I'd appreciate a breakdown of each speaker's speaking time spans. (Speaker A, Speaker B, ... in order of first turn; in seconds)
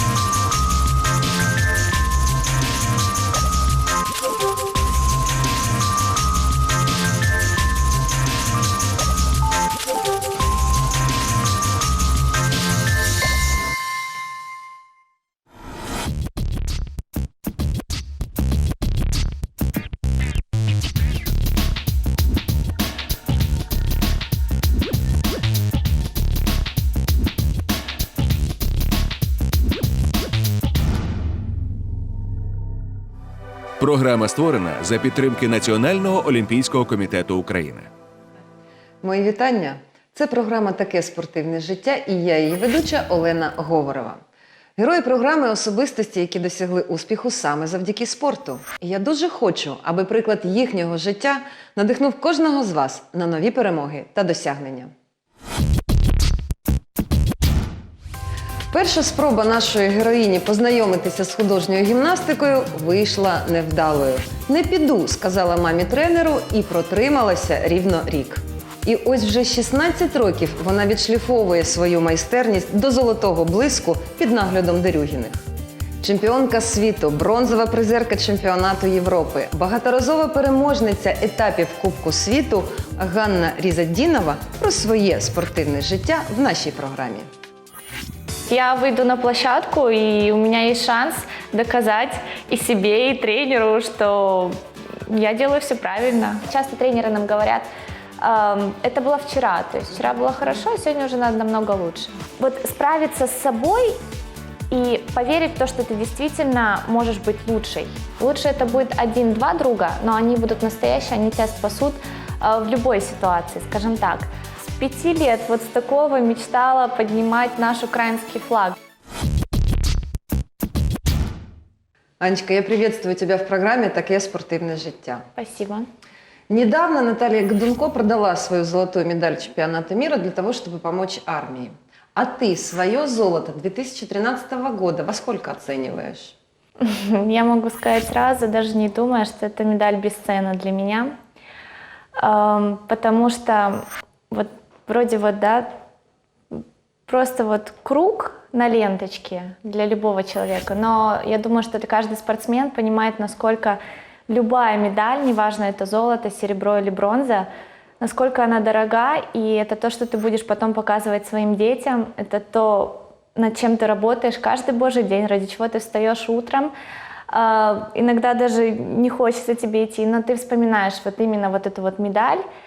Speaker A: 33.8-37.9
Speaker B: 39.0-44.2, 44.8-54.9, 58.7-75.5, 76.0-87.3, 122.2-125.3, 126.5-136.3
Speaker C: 88.5-97.7, 98.2-104.0, 104.7-118.7, 125.3-125.9, 136.8-141.1, 142.2-145.7, 147.1-157.5, 158.0-166.7, 167.3-172.4